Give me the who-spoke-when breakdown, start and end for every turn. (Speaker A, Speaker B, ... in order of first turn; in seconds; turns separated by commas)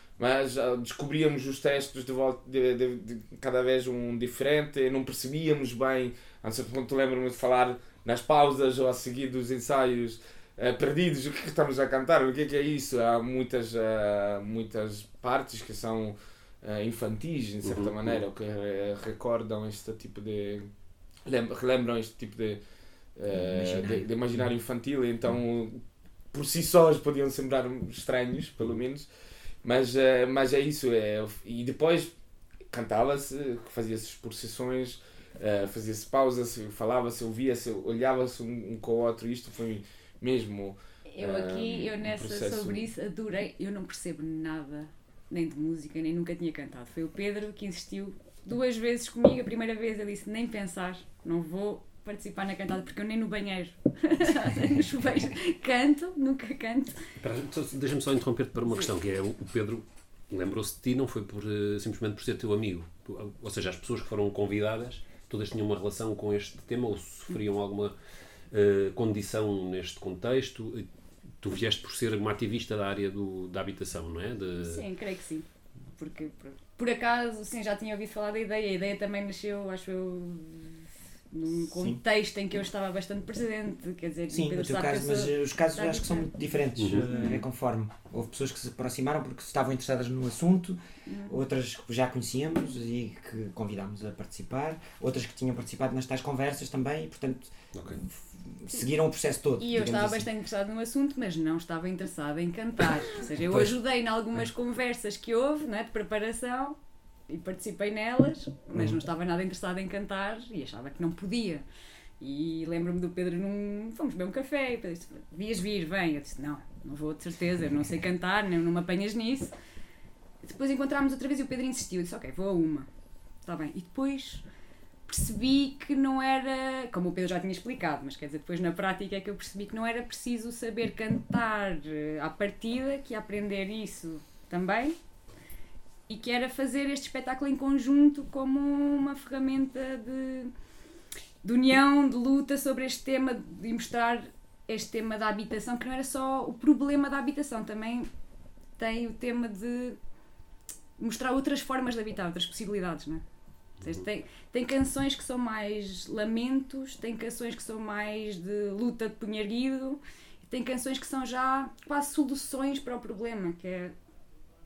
Speaker A: 0.2-20.7, Speaker B: 17.6-18.2, Speaker A: 21.2-22.6, Speaker A: 23.2-29.1, Speaker C: 23.3-24.1, Speaker A: 29.6-32.1, Speaker A: 32.7-42.9, Speaker D: 41.1-57.0, Speaker B: 57.2-68.0, Speaker B: 68.5-70.9, Speaker B: 71.4-74.8, Speaker D: 74.6-75.5, Speaker D: 76.0-86.3, Speaker C: 81.7-82.0, Speaker C: 84.3-100.3, Speaker B: 86.8-87.4, Speaker D: 91.1-91.3, Speaker B: 97.8-98.0, Speaker D: 99.6-106.8, Speaker C: 103.3-103.8, Speaker D: 107.3-111.7, Speaker D: 112.2-119.5, Speaker D: 120.4-122.9, Speaker D: 123.5-124.4, Speaker D: 125.1-135.0, Speaker D: 136.1-140.5, Speaker D: 141.4-148.1, Speaker D: 148.8-150.0, Speaker D: 151.0-153.2, Speaker D: 153.8-163.9